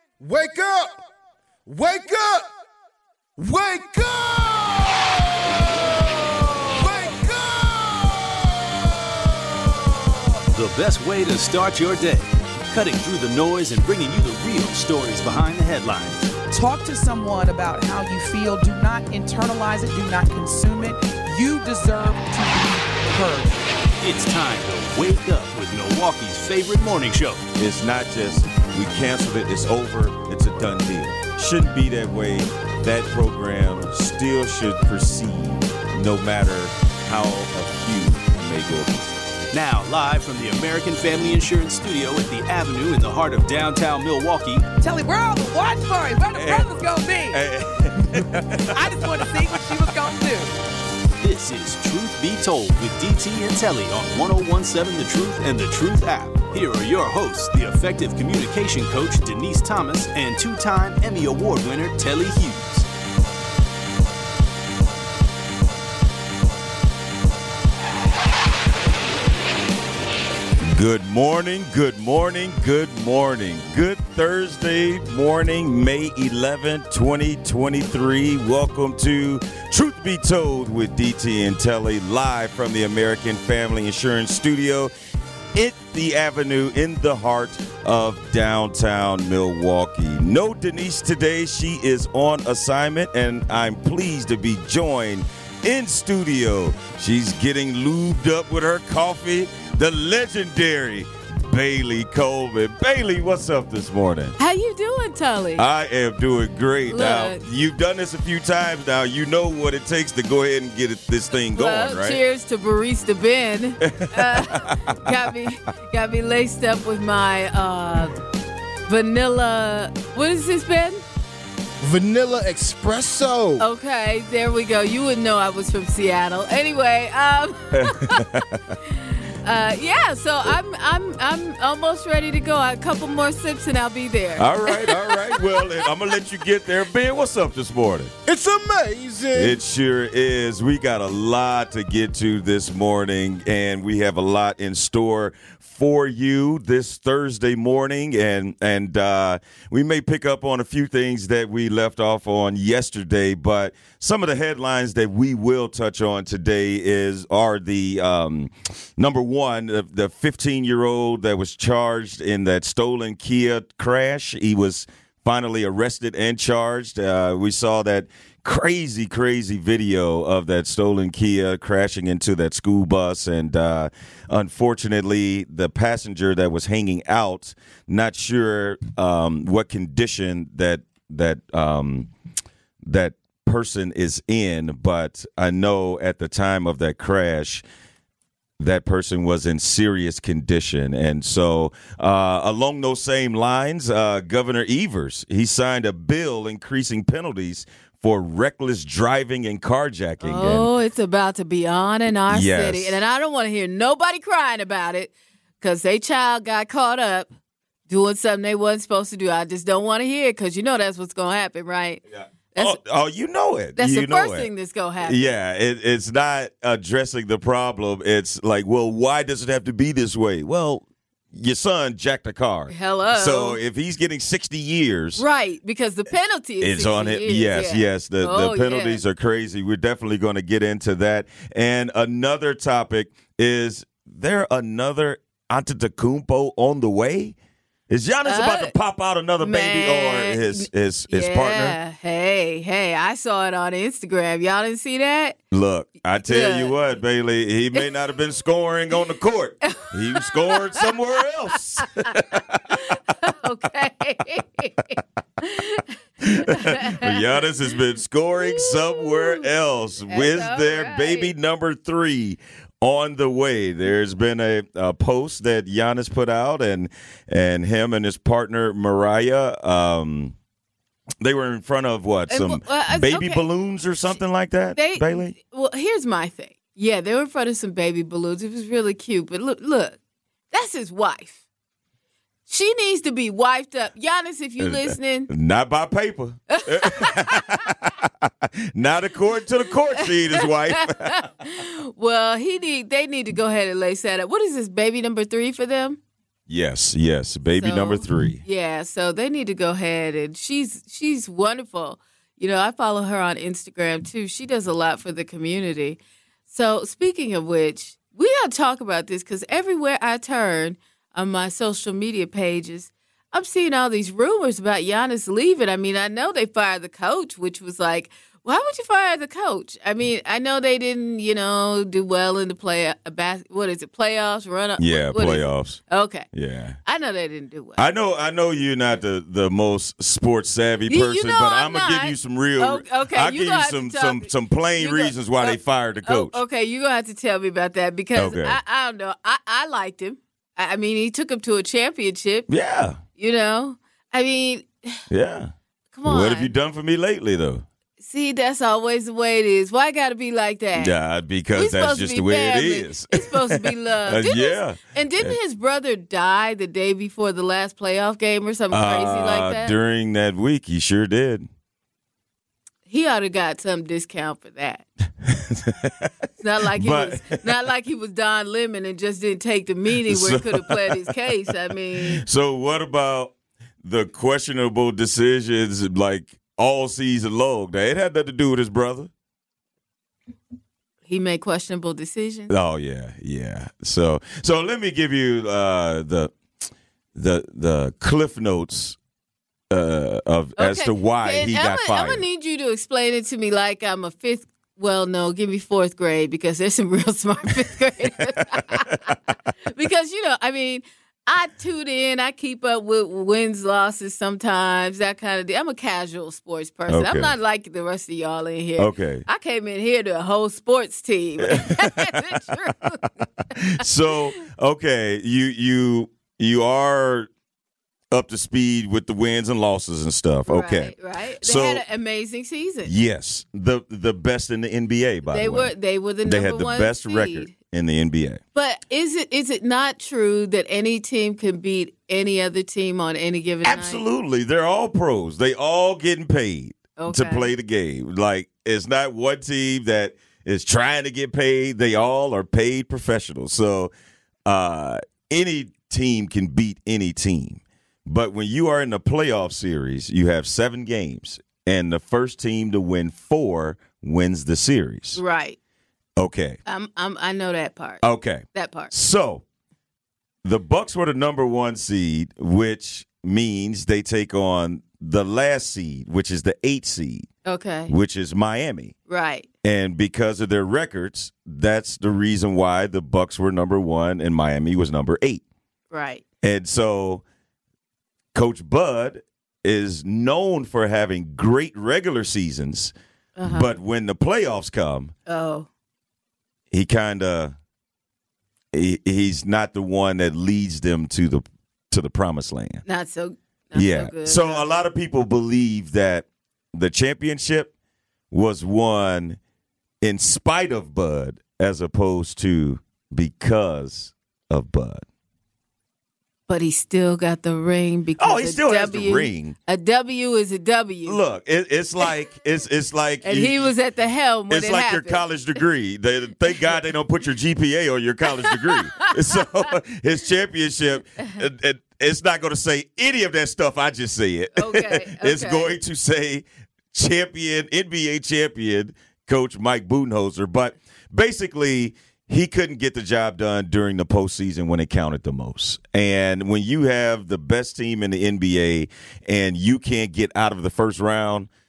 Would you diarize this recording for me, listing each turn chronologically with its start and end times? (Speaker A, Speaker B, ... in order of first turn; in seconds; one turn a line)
Speaker A: 0.2-1.0
Speaker A: 1.7-2.5
Speaker A: 3.4-10.4
Speaker B: 10.5-16.3
Speaker C: 16.5-23.6
Speaker B: 24.0-27.4
Speaker D: 27.6-39.2
Speaker B: 39.5-44.7
Speaker C: 44.8-47.4
Speaker D: 46.3-49.9
Speaker C: 48.7-50.5
Speaker B: 51.2-62.9
Speaker D: 70.6-84.9
Speaker D: 85.5-104.4
Speaker E: 104.4-105.6
Speaker D: 105.6-112.2
Speaker E: 106.9-107.4
Speaker E: 111.5-118.2
Speaker D: 113.8-115.1
Speaker E: 118.9-121.0
Speaker A: 121.8-123.6
Speaker E: 123.6-128.3
Speaker D: 127.7-128.8
Speaker E: 128.8-135.9
Speaker D: 134.4-138.1
Speaker A: 138.3-139.6
Speaker D: 139.3-182.1
Speaker D: 182.8-187.6
Speaker D: 188.6-200.7
Speaker E: 200.2-207.3
Speaker D: 202.3-203.0
Speaker E: 207.9-212.0
Speaker D: 212.2-214.5
Speaker E: 213.8-215.2
Speaker D: 215.0-225.2
Speaker E: 222.7-223.6
Speaker E: 225.2-229.0
Speaker D: 226.6-237.4
Speaker D: 237.9-241.8
Speaker E: 238.3-238.7
Speaker E: 239.4-245.4
Speaker D: 245.5-252.6
Speaker E: 246.2-246.8
Speaker E: 249.6-251.0
Speaker E: 252.3-257.2
Speaker D: 256.2-270.4
Speaker E: 258.4-259.5
Speaker E: 260.1-261.3
Speaker D: 271.2-275.4
Speaker E: 272.3-273.5
Speaker E: 274.8-280.0
Speaker E: 280.5-281.4
Speaker E: 282.5-285.3
Speaker D: 284.6-291.3
Speaker E: 286.5-287.7
Speaker E: 290.0-296.0
Speaker D: 296.5-298.4
Speaker E: 297.6-326.3
Speaker D: 324.8-326.8
Speaker E: 326.9-327.8
Speaker D: 327.8-336.4
Speaker E: 330.9-342.5
Speaker D: 338.1-338.6
Speaker D: 342.5-343.0
Speaker E: 343.2-345.0
Speaker D: 345.1-345.5
Speaker E: 345.9-346.5
Speaker D: 346.1-347.6
Speaker E: 348.0-350.9
Speaker D: 350.8-355.4
Speaker E: 351.6-359.7
Speaker D: 358.7-361.5
Speaker E: 362.9-364.9
Speaker D: 365.2-366.1
Speaker E: 366.4-372.2
Speaker D: 366.6-367.5
Speaker D: 370.1-379.1
Speaker E: 381.1-382.5
Speaker D: 382.5-386.3
Speaker D: 387.1-389.0
Speaker D: 389.7-392.2
Speaker E: 390.6-413.1
Speaker D: 398.5-399.0
Speaker D: 406.9-407.3
Speaker D: 408.8-409.2
Speaker D: 411.4-412.5
Speaker D: 413.6-417.3
Speaker E: 413.8-414.1
Speaker D: 418.1-421.8
Speaker E: 420.5-422.9
Speaker D: 422.8-428.4
Speaker E: 425.3-427.5
Speaker E: 428.6-434.0
Speaker D: 433.6-443.9
Speaker E: 437.0-437.5
Speaker D: 444.5-455.2
Speaker E: 455.2-455.6
Speaker D: 456.2-456.6
Speaker E: 456.7-458.9
Speaker D: 458.0-459.4
Speaker D: 460.4-467.3
Speaker E: 467.4-467.9
Speaker D: 467.9-468.9
Speaker E: 469.1-469.5
Speaker D: 469.6-475.4
Speaker E: 475.9-476.2
Speaker D: 476.4-477.2
Speaker D: 478.3-482.9
Speaker E: 483.4-483.7
Speaker D: 483.4-485.1
Speaker E: 485.3-485.7
Speaker D: 486.7-487.6
Speaker D: 488.7-492.8
Speaker E: 492.9-494.7
Speaker D: 493.8-497.7
Speaker D: 498.3-499.4
Speaker D: 500.0-505.1
Speaker E: 506.5-511.2
Speaker D: 508.2-509.6
Speaker D: 511.1-513.7
Speaker E: 513.2-515.2
Speaker D: 514.5-541.5
Speaker E: 518.5-519.4
Speaker E: 524.6-525.8